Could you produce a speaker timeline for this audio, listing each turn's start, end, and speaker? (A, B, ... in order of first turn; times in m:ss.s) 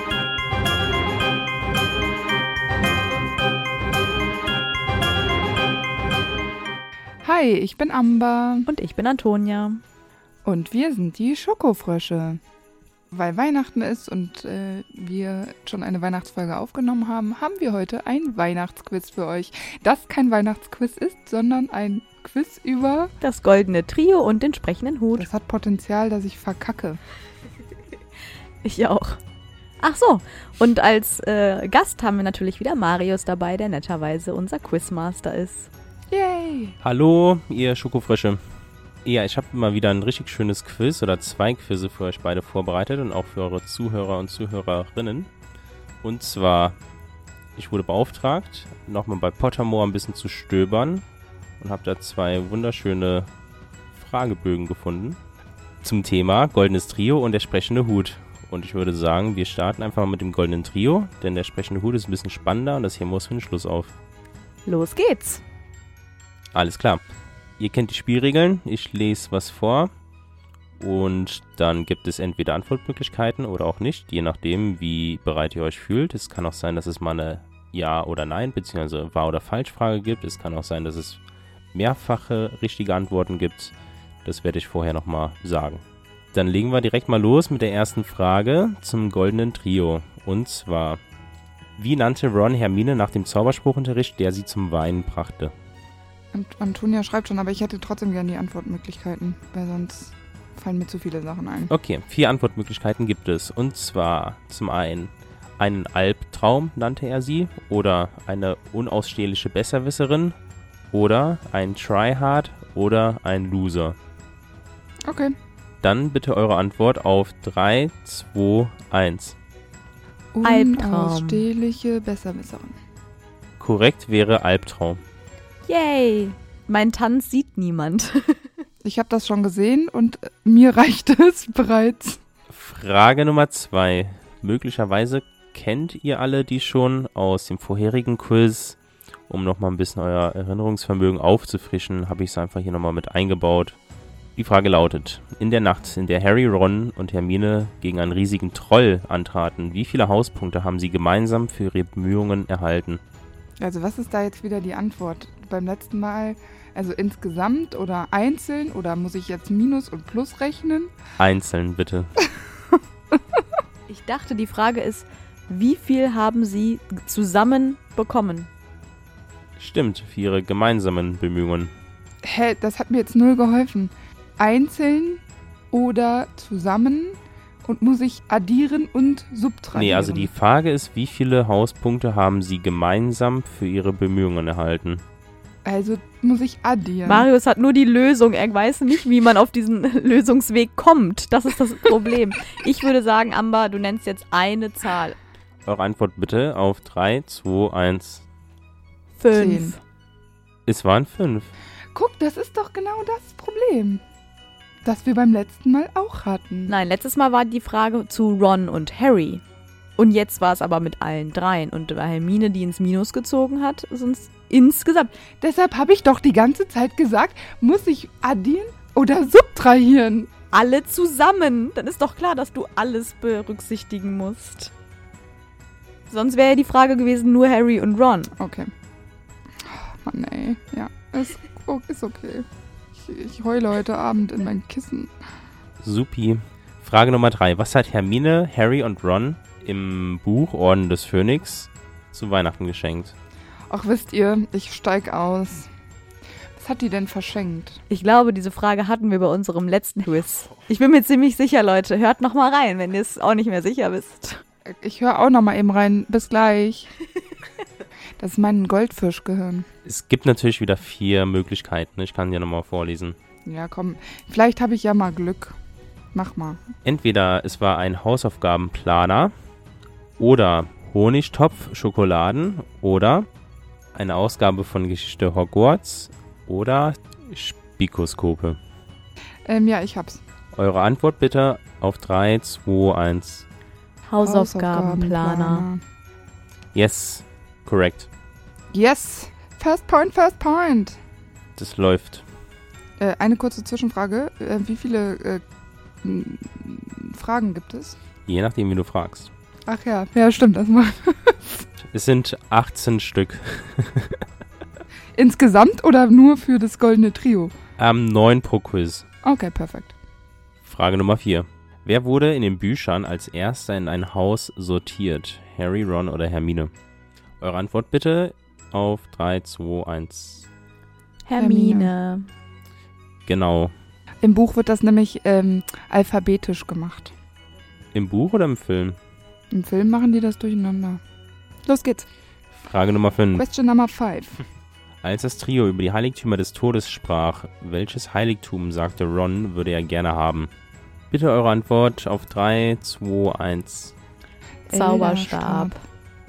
0:07.2-0:08.7 A
0:08.6-0:09.8 B
0:10.4-0:12.4 A
0:13.1-0:23.1 A
0:23.2-0:25.3 B
0:25.2-0:27.0 A
0:28.6-0:29.2 B
0:29.8-0:35.7 B
0:36.1-0:36.8 A
0:36.8-0:38.4 C
0:39.0-0:45.3 C
0:46.0-0:46.8 C
0:47.6-0:51.0 C
0:51.6-0:53.3 C
0:53.9-0:55.2 C
0:55.8-1:03.9 C
1:04.6-1:05.4 B
1:06.5-1:07.0 C
1:07.6-1:09.9 C
1:10.8-1:21.2 C
1:21.7-1:23.7 C
1:24.2-1:31.0 C
1:31.8-1:35.5 C
1:36.3-1:41.7 A
1:41.7-1:50.3 C
1:50.9-1:54.0 C
1:55.0-1:55.3 A
1:55.8-1:59.4 C
2:00.3-2:02.8 A
2:00.4-2:01.5 B
2:03.6-2:05.0 C
2:05.7-2:08.4 B
2:08.8-2:12.2 A
2:12.5-2:18.8 C
2:19.3-2:23.8 C
2:24.4-2:33.0 C
2:33.6-2:40.9 A
2:41.2-2:42.1 C
2:43.9-2:48.5 B
2:49.6-2:51.7 C
2:52.2-3:00.3 A
2:59.7-3:05.0 C
3:05.6-3:07.3 A
3:07.0-3:15.2 B
3:15.6-3:18.2 C
3:19.2-3:19.8 B
3:19.3-3:19.8 A
3:20.6-3:21.5 C
3:21.9-3:24.0 A
3:24.8-3:26.7 A
3:26.7-3:29.4 B
3:30.0-3:35.1 B
3:35.4-3:40.3 A
3:40.5-3:44.7 B
3:46.1-3:48.3 B
3:48.4-3:48.7 A
3:49.6-3:55.1 A
3:55.8-4:03.1 C
4:03.7-4:05.7 A
4:06.6-4:07.8 A
4:07.9-4:14.4 B
4:14.6-4:16.9 A
4:18.2-4:19.7 A
4:19.8-4:23.2 C
4:23.4-4:25.6 A
4:26.1-4:26.6 A
4:26.8-4:29.3 C
4:30.2-4:33.3 C
4:33.9-4:38.6 C
4:39.4-4:40.2 A
4:40.5-4:43.4 C
4:44.0-4:45.7 B
4:44.2-4:45.8 A
4:46.7-4:48.1 C
4:48.7-4:51.0 A
4:51.6-4:52.2 C
4:53.0-4:55.4 A
4:56.0-4:58.0 A
4:58.3-4:59.3 C
4:59.7-5:01.6 A
5:01.8-5:04.2 C
5:05.1-5:07.5 A
5:07.8-5:09.0 C
5:09.2-5:09.9 A
5:10.6-5:16.7 C
5:17.4-5:20.5 C
5:21.2-5:22.3 B
5:21.4-5:21.9 A
5:23.3-5:23.7 C
5:24.2-5:27.1 A
5:27.9-5:29.0 C
5:29.5-5:31.0 A
5:31.6-5:32.1 A
5:32.5-5:33.4 C
5:33.3-5:34.4 A
5:35.0-5:40.5 C
5:41.1-5:43.9 C
5:44.7-5:45.7 A
5:44.7-5:45.8 B